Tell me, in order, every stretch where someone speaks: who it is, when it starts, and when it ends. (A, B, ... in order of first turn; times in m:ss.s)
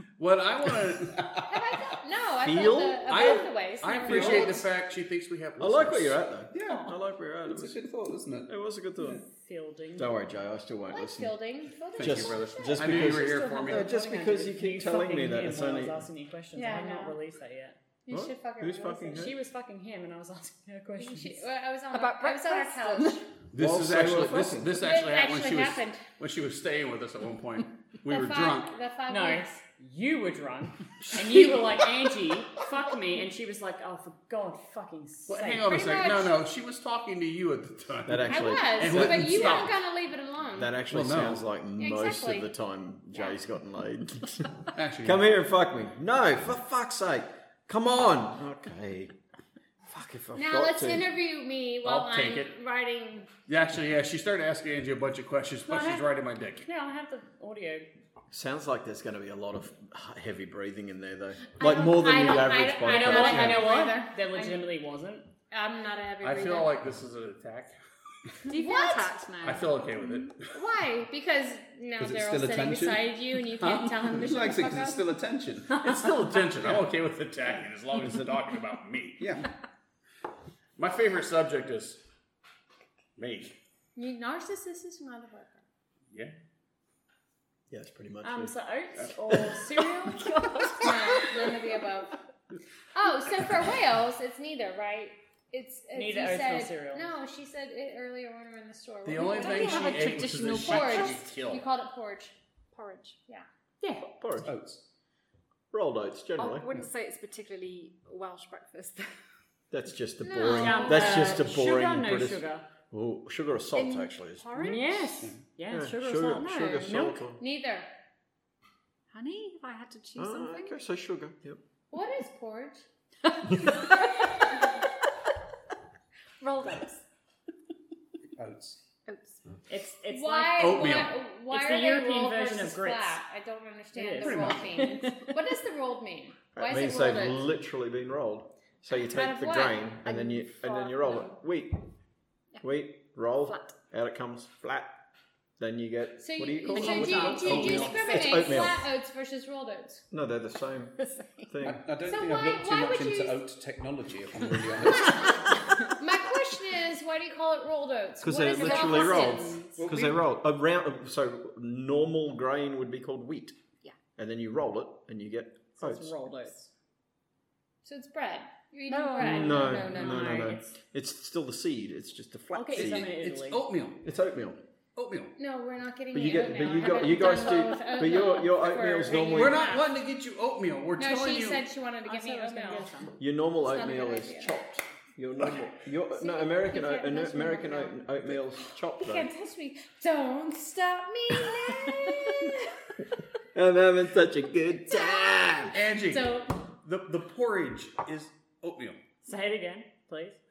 0:00.2-0:01.2 A
0:00.7-0:01.5 B
0:01.5-0:04.7 C
0:02.4-0:03.3 D
0:03.1-0:06.2 A
0:04.1-0:04.6 D
0:04.1-0:04.4 B
0:05.6-0:07.8 D
0:06.5-0:08.5 B
0:08.5-0:09.2 D
0:09.1-0:10.2 E
0:10.0-0:11.4 D
0:10.9-0:13.0 C
0:12.0-0:13.9 A
0:12.0-0:16.1 D
0:13.1-0:17.8 E
0:16.5-0:17.2 C
0:18.1-0:19.3 C
0:18.1-0:19.4 D
0:19.1-0:21.4 E
0:21.0-0:23.2 C
0:21.9-0:23.3 F
0:23.5-0:28.7 A
0:23.6-0:24.8 D
0:24.8-0:26.0 C
0:28.1-0:29.6 C
0:29.1-0:35.7 E
0:35.3-0:39.8 A
0:35.5-0:36.4 C
0:38.1-0:39.6 D
0:38.3-0:40.8 C
0:40.5-0:49.2 D
0:40.9-0:41.4 A
0:41.8-0:42.5 C
0:44.7-0:45.3 A
0:49.9-0:51.1 D
0:50.4-0:53.3 C
0:51.8-0:52.5 A
0:53.5-0:56.7 A
0:55.7-0:57.9 E
0:58.3-1:03.7 D
1:01.6-1:04.6 C
1:02.9-1:05.3 E
1:05.5-1:06.7 C
1:06.2-1:07.7 A
1:08.5-1:10.3 F
1:08.5-1:09.2 C
1:09.4-1:10.5 A
1:10.5-1:15.0 C
1:12.0-1:16.8 B
1:15.8-1:19.2 A
1:19.2-1:19.5 B
1:20.8-1:22.0 A
1:23.2-1:23.6 A
1:24.0-1:25.6 C
1:27.7-1:28.6 D
1:28.2-1:30.5 E
1:29.3-1:29.6 D
1:30.1-1:31.5 F
1:30.8-1:32.1 C
1:32.9-1:42.4 C
1:35.9-1:37.1 E
1:39.0-1:41.6 A
1:39.2-1:41.3 F
1:42.7-1:43.2 F
1:43.8-1:44.1 E
1:44.0-1:44.5 D
1:44.4-1:44.8 B
1:45.7-1:46.7 D
1:46.4-1:49.1 F
1:49.7-1:54.9 D
1:50.2-1:51.3 C
1:50.4-1:52.7 E
1:53.7-1:55.3 F
1:54.6-1:57.2 E
1:55.7-1:57.4 D
1:56.3-1:56.6 F
1:57.4-1:57.9 C
1:59.1-2:00.8 F
2:00.2-2:01.6 D
2:01.9-2:02.8 C
2:03.3-2:04.1 F
2:06.4-2:07.0 F
2:08.4-2:08.8 B
2:09.1-2:09.4 F
2:09.7-2:10.9 E
2:10.1-2:17.4 C
2:10.6-2:11.2 A
2:11.5-2:13.2 E
2:14.0-2:15.1 E
2:14.2-2:14.6 A
2:16.6-2:21.8 D
2:19.0-2:19.9 C
2:20.0-2:21.4 F
2:22.6-2:24.9 D
2:23.4-2:23.7 F
2:25.6-2:28.9 D
2:26.2-2:30.0 C
2:26.7-2:28.6 F
2:30.1-2:31.8 D
2:31.0-2:31.5 F
2:31.6-2:35.4 B
2:32.0-2:33.4 C
2:35.0-2:39.6 C
2:38.2-2:43.6 D
2:38.5-2:39.9 F
2:39.8-2:40.2 B
2:44.2-2:46.1 D
2:45.8-2:46.7 E
2:47.8-2:50.4 C
2:48.9-2:50.1 F
2:49.2-2:50.8 E
2:49.2-2:53.2 D
2:52.5-2:53.6 E
2:52.8-2:54.0 A
2:54.0-2:54.6 D
2:55.0-2:55.4 A
2:55.4-2:59.9 C
2:56.1-2:59.7 D
2:59.1-3:01.7 A
3:01.0-3:02.9 C
3:02.0-3:03.2 E
3:03.2-3:09.3 D
3:03.6-3:04.5 C
3:06.2-3:08.0 C
3:09.0-3:12.6 C
3:13.5-3:15.8 D
3:14.9-3:16.5 C
3:15.7-3:19.0 A
3:19.2-3:20.4 E